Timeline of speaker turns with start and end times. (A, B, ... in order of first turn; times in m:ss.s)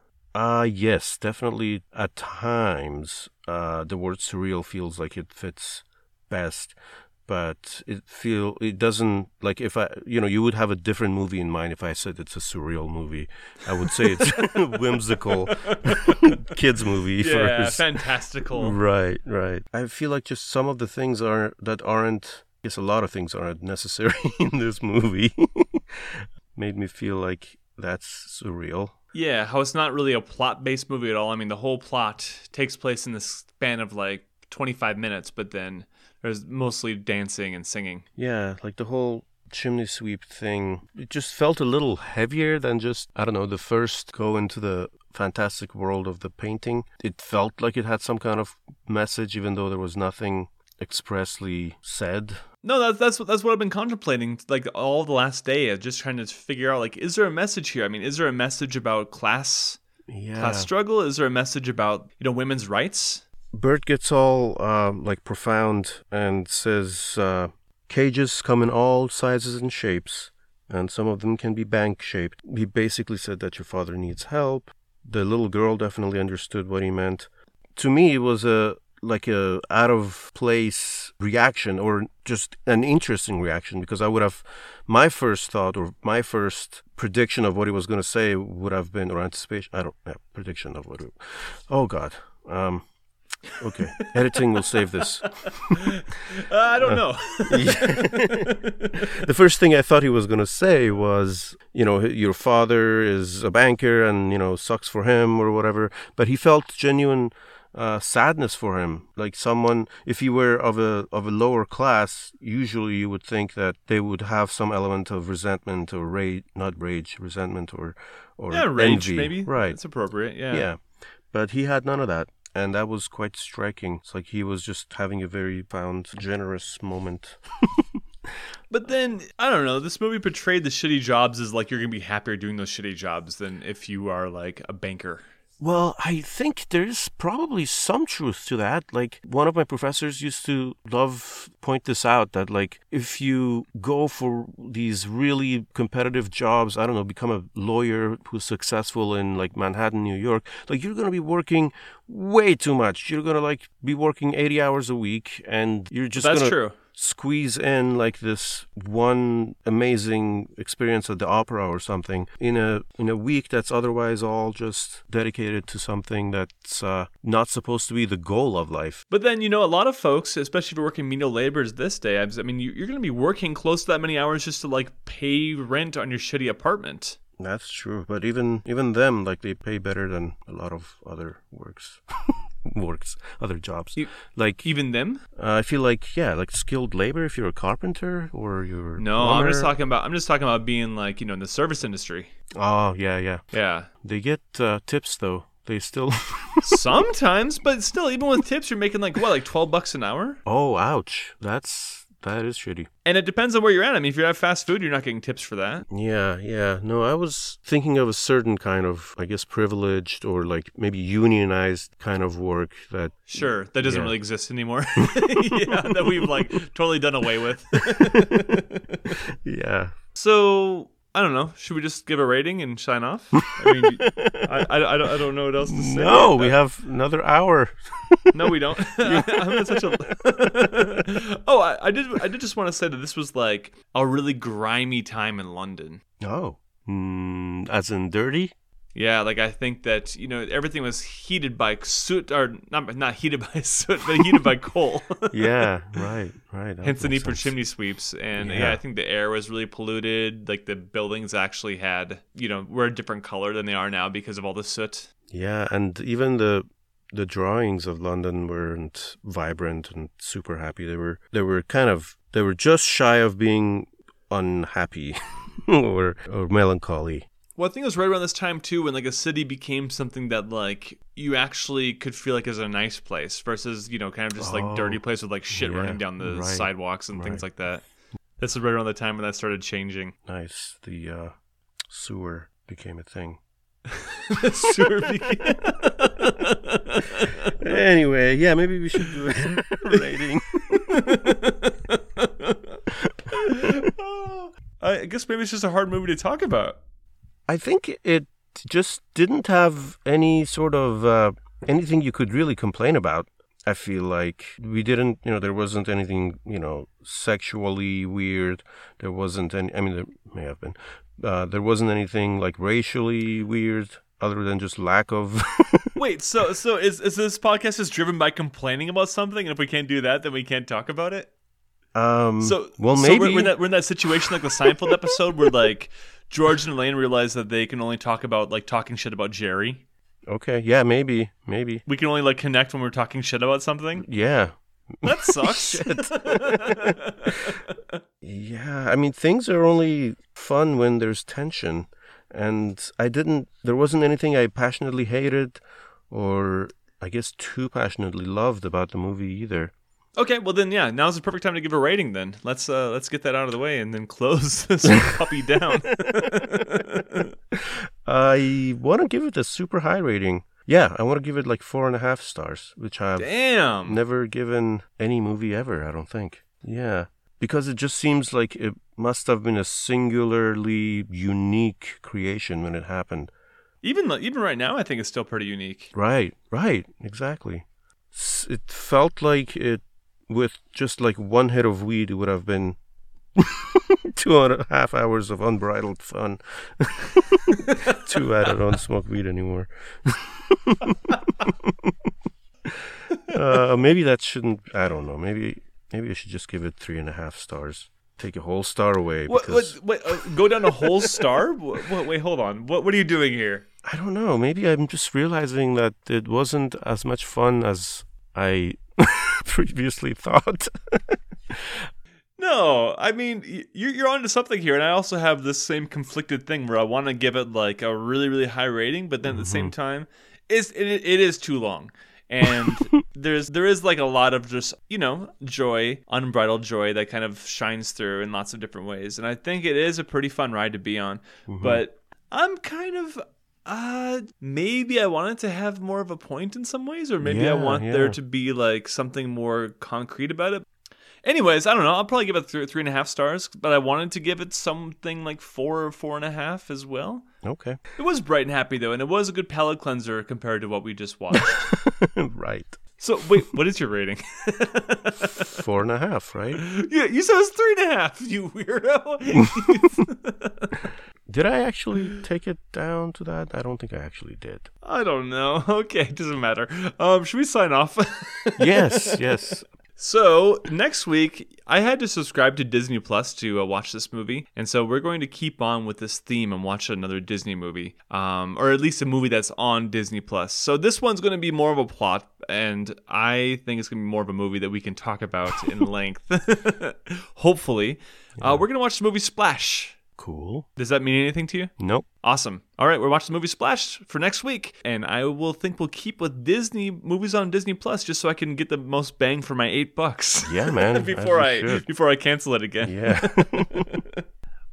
0:00.3-0:17.9 A
0:14.0-0:14.8 B
0:15.3-0:16.4 B
0:17.2-0:18.8 B
0:18.5-0:28.9 A
0:29.1-0:38.0 B
0:38.2-0:52.4 A
0:52.6-0:59.8 B
1:00.1-1:00.7 A
1:00.4-1:03.2 B
1:03.5-1:32.9 A
1:33.6-1:35.9 A
1:34.0-1:39.1 B
1:36.8-1:59.8 A
1:58.5-2:00.7 B
2:00.5-2:00.8 A
2:01.3-2:08.0 A
2:08.7-2:15.3 B
2:15.6-2:49.0 A
2:36.2-2:36.8 B
2:49.1-2:57.2 B
2:57.4-3:04.7 A
3:04.0-3:05.2 B
3:05.4-3:09.7 A
3:09.0-3:12.3 B
3:12.6-3:13.4 A
3:13.5-3:13.9 B
3:14.0-3:16.8 A
3:16.6-3:20.4 B
3:20.4-3:22.9 A
3:23.0-3:25.8 B
3:25.9-3:34.1 A
3:33.3-3:39.2 B
3:35.0-3:36.4 A
3:38.0-3:38.6 A
3:39.3-3:39.9 A
3:40.1-3:46.6 B
3:43.6-3:44.5 A
3:45.7-3:50.2 A
3:48.3-3:56.0 B
3:56.2-3:58.5 A
3:58.9-4:05.6 B
4:05.3-4:07.5 A
4:06.8-4:15.1 B
4:08.4-4:08.8 A
4:15.3-4:27.3 A
4:27.6-4:37.8 B
4:34.4-4:37.4 A
4:38.4-4:40.1 B
4:40.3-4:41.3 A
4:41.9-4:43.4 A
4:44.0-4:47.7 B
4:47.5-4:51.4 A
4:50.6-4:52.8 B
4:52.9-4:53.7 A
4:53.3-4:56.8 B
4:57.5-5:16.0 A
5:16.0-5:21.3 B
5:21.9-5:23.5 A
5:22.4-5:29.8 B
5:30.3-5:31.8 A
5:31.9-5:34.0 B
5:34.0-5:37.5 A
5:35.0-5:37.8 B
5:38.2-5:49.7 A
5:50.2-5:57.3 B
5:57.5-6:03.3 A
6:03.2-6:04.0 B
6:03.8-6:13.3 A
6:13.8-6:15.9 B
6:15.9-6:22.8 A
6:23.4-6:32.0 A
6:27.5-6:28.0 B
6:32.6-6:41.1 A
6:39.3-6:43.6 B
6:43.8-6:51.9 A
6:52.4-7:20.7 B
6:59.2-6:59.7 A
7:11.5-7:11.8 A
7:17.2-7:18.2 A
7:21.2-7:27.2 B
7:27.4-7:27.8 A
7:28.0-7:31.7 B
7:31.4-7:32.8 A
7:33.0-7:35.6 B
7:35.2-7:36.6 A
7:36.5-7:40.8 B
7:41.3-7:44.7 A
7:44.8-7:49.2 B
7:48.6-7:49.6 A
7:50.0-8:10.0 B
8:08.4-8:08.6 A
8:10.2-8:10.6 A
8:10.8-8:11.7 B
8:11.8-8:12.0 A
8:12.2-8:24.2 B
8:20.4-8:21.9 A
8:22.8-8:24.0 A